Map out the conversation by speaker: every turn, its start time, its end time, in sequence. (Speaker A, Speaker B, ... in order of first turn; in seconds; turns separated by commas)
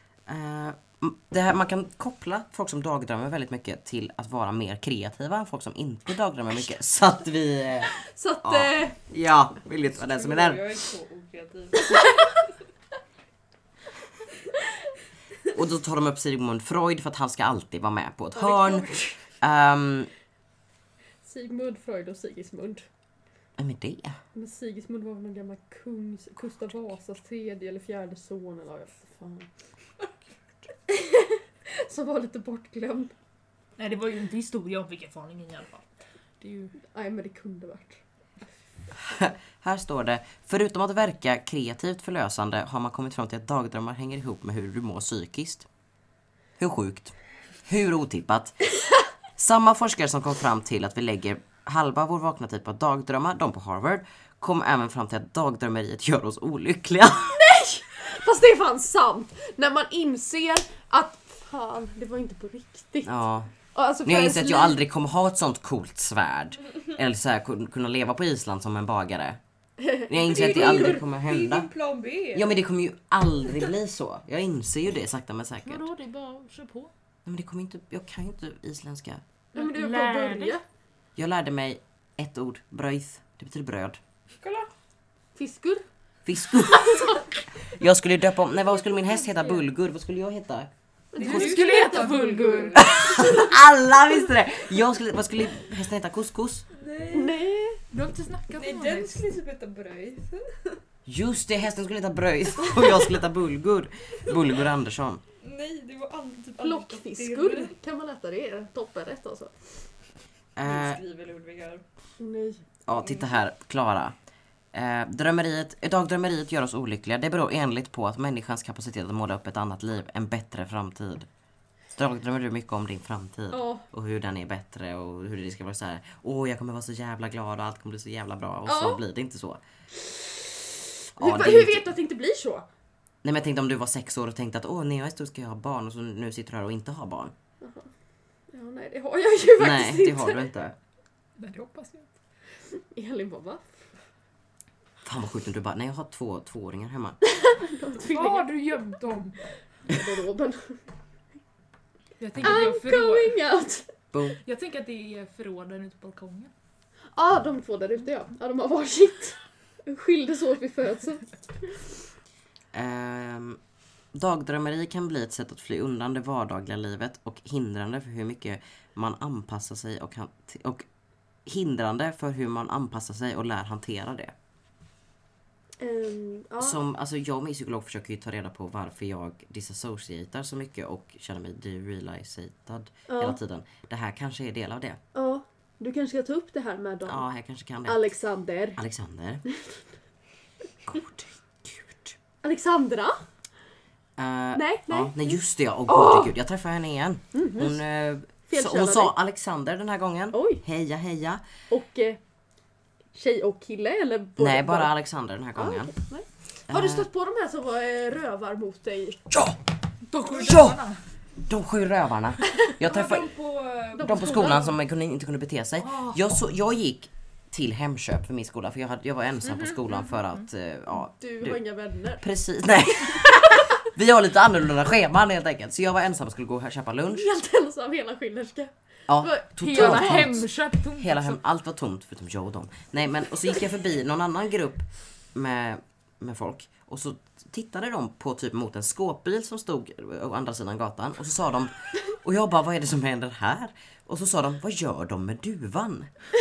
Speaker A: 0.3-7.9, Speaker B: 7.9-9.0, Speaker A: 8.4-10.7, Speaker C: 9.9-12.3, Speaker A: 15.5-20.1, Speaker B: 18.4-19.2, Speaker B: 21.2-22.9, Speaker A: 23.6-24.2, Speaker B: 24.3-29.5, Speaker B: 30.9-33.1, Speaker D: 33.8-35.9, Speaker D: 36.4-36.7, Speaker B: 36.8-38.0, Speaker A: 39.0-45.7, Speaker A: 46.6-47.1, Speaker A: 47.7-48.6, Speaker A: 49.4-57.4, Speaker B: 57.3-63.2, Speaker A: 63.0-63.5, Speaker B: 63.7-64.8, Speaker A: 64.0-69.4, Speaker B: 69.8-70.9, Speaker A: 70.1-71.7, Speaker C: 70.2-72.5, Speaker A: 72.3-75.9, Speaker D: 75.6-76.9, Speaker A: 77.2-79.2, Speaker B: 79.5-80.6, Speaker D: 79.5-80.6, Speaker A: 81.2-84.0, Speaker C: 84.4-84.7, Speaker B: 85.4-85.8, Speaker A: 86.2-90.7, Speaker B: 86.7-87.2, Speaker B: 91.1-92.6, Speaker C: 91.2-93.4, Speaker D: 91.2-93.0, Speaker A: 92.8-96.7, Speaker C: 96.7-97.4, Speaker B: 97.1-97.8, Speaker D: 97.9-99.2, Speaker C: 98.5-100.8, Speaker A: 101.1-105.2, Speaker C: 102.7-103.1, Speaker C: 105.4-107.7, Speaker B: 106.6-109.5, Speaker A: 110.6-111.0, Speaker C: 110.6-111.8, Speaker B: 112.2-112.6, Speaker A: 112.9-114.2, Speaker C: 113.0-113.2, Speaker A: 114.7-121.3, Speaker A: 122.0-129.6, Speaker B: 123.5-123.9, Speaker B: 128.7-129.0, Speaker B: 130.1-130.5, Speaker B: 131.2-132.7, Speaker A: 131.2-131.9, Speaker A: 133.2-137.3, Speaker B: 137.6-137.9, Speaker B: 138.5-140.5, Speaker A: 139.6-140.8, Speaker D: 141.4-142.1, Speaker B: 142.7-143.8, Speaker A: 145.0-147.2, Speaker B: 147.3-148.5, Speaker D: 148.1-149.4, Speaker B: 149.9-150.8, Speaker D: 152.2-153.4, Speaker B: 152.4-153.9, Speaker A: 154.1-154.4, Speaker D: 154.4-156.5, Speaker B: 157.2-161.9, Speaker A: 162.7-163.6, Speaker A: 164.1-170.9, Speaker A: 171.5-174.3, Speaker B: 175.8-176.8, Speaker A: 176.6-185.0, Speaker B: 183.1-183.4, Speaker B: 185.2-187.2, Speaker A: 187.1-188.0, Speaker B: 187.8-188.8, Speaker A: 188.8-189.4, Speaker B: 189.5-189.8, Speaker A: 190.9-192.1, Speaker B: 192.4-193.2, Speaker A: 194.2-201.4, Speaker B: 194.5-196.3, Speaker B: 197.3-197.8, Speaker B: 198.5-199.1, Speaker B: 200.3-200.6, Speaker B: 201.7-202.2, Speaker B: 203.1-204.9, Speaker A: 204.4-205.9, Speaker B: 205.6-209.2, Speaker A: 206.7-207.1, Speaker A: 209.3-209.6, Speaker D: 210.1-211.0, Speaker A: 210.3-210.8, Speaker A: 211.5-213.3, Speaker C: 212.8-214.7, Speaker B: 214.0-214.7, Speaker A: 214.0-221.6, Speaker B: 221.2-222.2, Speaker A: 222.2-227.3, Speaker B: 227.1-230.4, Speaker A: 229.1-246.1, Speaker D: 229.6-231.4